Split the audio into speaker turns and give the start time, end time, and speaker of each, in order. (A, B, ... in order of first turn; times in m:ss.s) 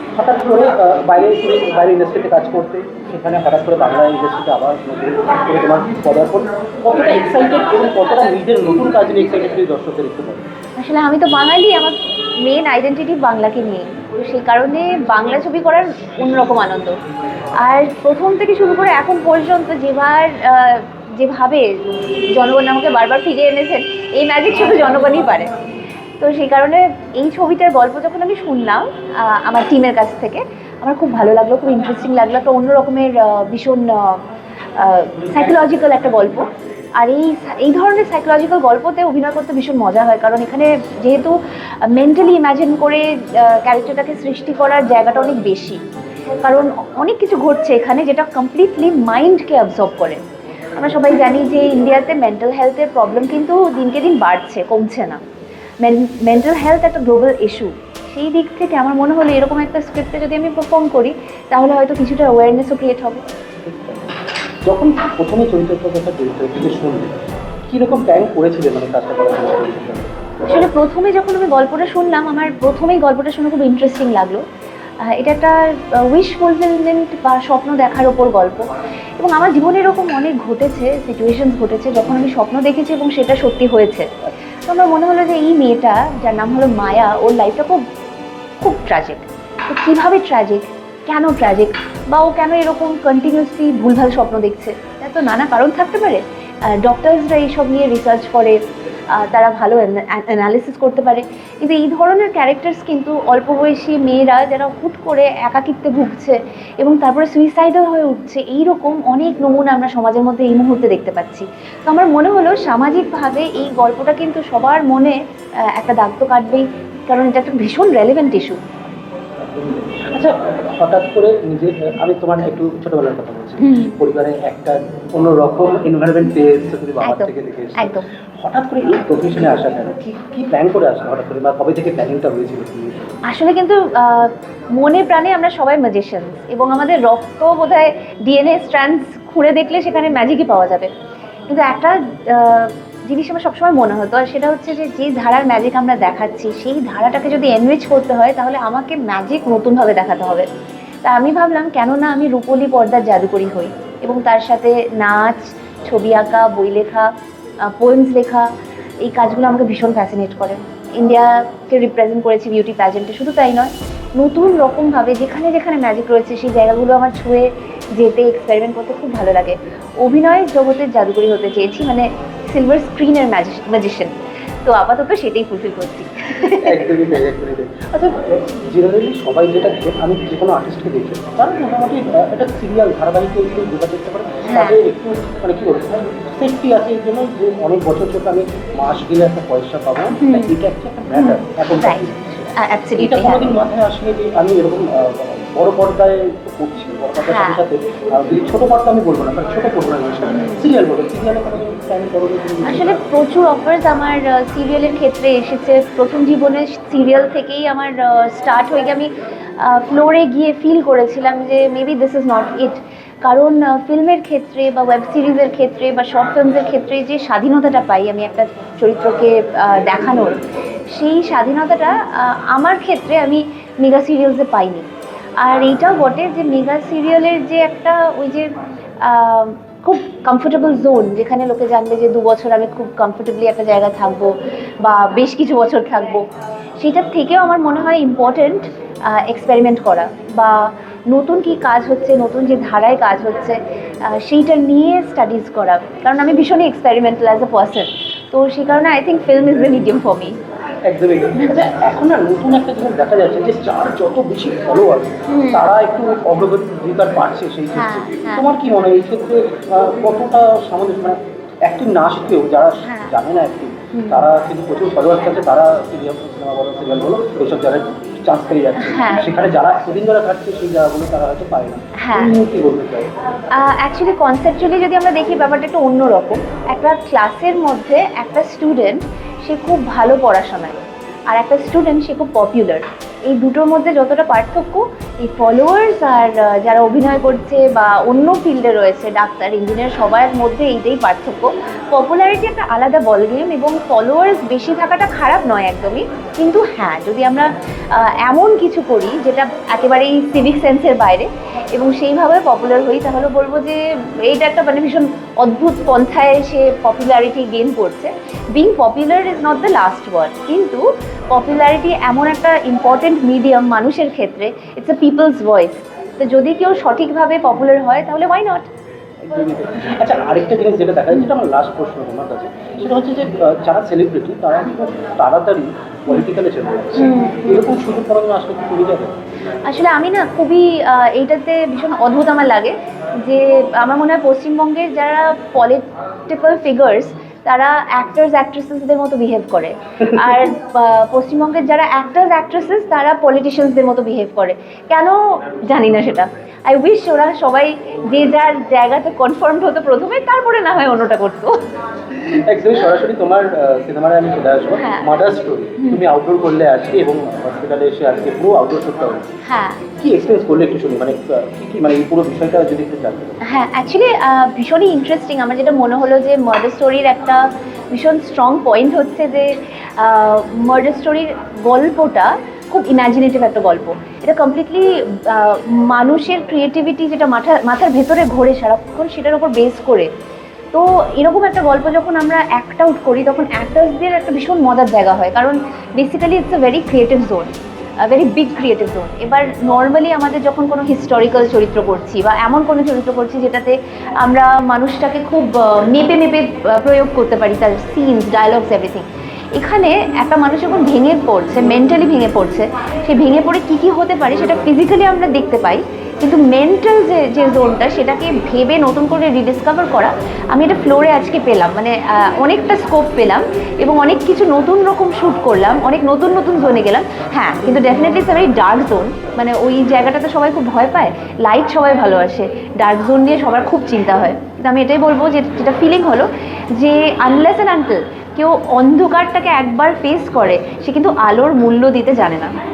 0:00.2-0:10.5 A
0:10.8-0:17.0 B
0:17.6-0:25.5 B
0:26.2-0:34.2 B
0:34.8-0:45.8 B
0:46.4-0:50.2 B
0:50.8-0:55.2 B
0:55.8-1:03.2 B
1:03.6-1:04.2 A
1:04.7-1:07.1 A
1:07.7-1:10.1 A
1:10.4-1:14.4 B
1:15.0-1:18.7 B
1:19.2-1:24.1 B
1:24.7-1:27.8 B
1:28.6-1:38.6 B
1:39.1-1:55.2 B
1:55.7-1:58.6 B
1:59.6-2:13.2 A
2:03.6-2:04.0 B
2:07.0-2:08.1 B
2:13.3-2:20.9 B
2:21.5-2:30.5 B
2:31.0-2:37.1 B
2:37.7-2:38.5 B
2:39.0-2:56.8 B
2:56.5-3:12.4 A
3:04.5-3:04.8 B
3:10.2-3:10.5 B
3:11.1-3:13.5 B
3:13.0-3:23.0 A
3:17.2-3:17.6 B
3:20.3-3:20.7 B
3:22.6-3:40.4 B
3:40.9-3:44.9 B
3:45.4-3:48.5 B
3:49.0-3:56.2 B
3:56.8-4:10.4 B
4:10.9-4:33.1 A
4:11.4-4:11.6 B
4:15.3-4:15.7 B
4:17.8-4:18.5 B
4:22.8-4:23.1 B
4:23.9-4:24.2 B
4:28.8-4:29.3 B
4:32.0-4:32.3 B
4:33.5-4:40.8 B
4:41.3-5:18.7 B
5:19.2-5:29.2 A
5:27.0-5:27.7 B
5:29.7-5:51.6 B
5:52.2-5:59.3 A
5:54.8-5:55.1 B
5:59.4-5:59.8 B
6:00.0-6:03.3 A
6:03.4-6:20.1 B
6:20.7-7:12.6 B